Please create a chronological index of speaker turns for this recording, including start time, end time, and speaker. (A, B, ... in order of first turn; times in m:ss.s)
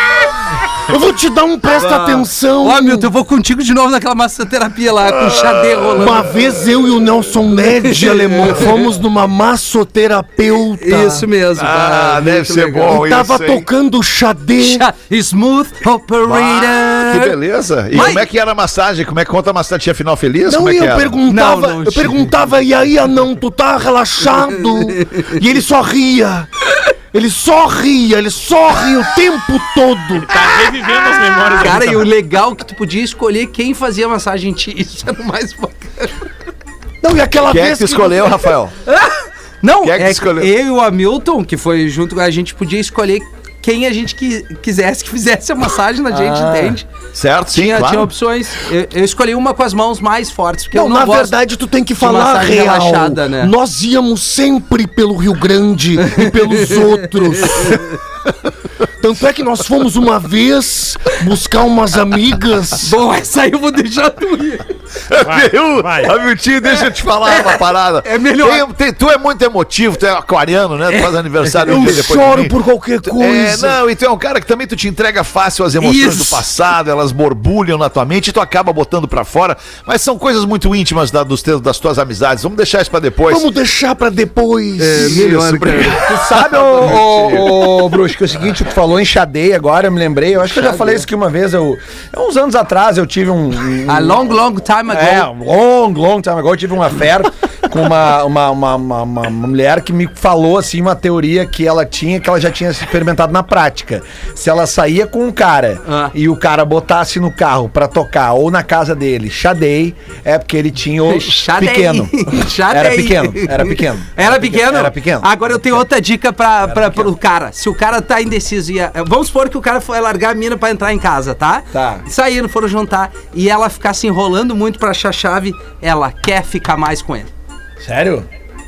0:00.9-0:03.1 A
0:01.7-0:06.4 B
0:05.1-0:06.4 C
0:05.9-0:11.3 A
0:07.6-0:08.8 B
0:10.8-0:13.0 B
0:11.6-0:13.7 C
0:12.9-0:14.8 A
0:14.6-0:17.4 B
0:16.2-0:21.2 C
0:17.9-0:18.2 B
0:20.4-0:26.5 A
0:21.3-0:22.2 B
0:27.1-0:30.3 A
0:30.2-0:32.1 D
0:31.5-0:36.2 B
0:37.0-0:38.5 A
0:37.4-0:38.7 C
0:38.8-0:46.9 B
0:39.8-0:40.5 C
0:46.1-0:46.8 E
0:47.1-0:48.1 C
0:47.5-0:51.4 B
0:50.7-0:57.9 A
0:52.0-0:53.5 B
0:56.0-0:56.7 B
0:57.4-0:57.9 B
0:59.0-1:02.9 A
1:02.8-1:04.7 B
1:05.1-1:23.5 C
1:05.2-1:06.1 D
1:07.2-1:08.7 B
1:10.9-1:11.7 B
1:11.6-1:13.8 A
1:15.8-1:16.5 B
1:23.3-1:26.0 A
1:24.8-1:26.0 B
1:25.7-1:27.5 C
1:25.9-1:55.8 E
1:26.9-1:27.3 B
1:30.5-1:31.0 B
1:33.8-1:35.3 B
1:45.8-1:46.1 B
1:51.0-2:07.3 B
1:56.6-1:57.1 E
2:01.7-2:02.0 E
2:07.8-2:08.3 E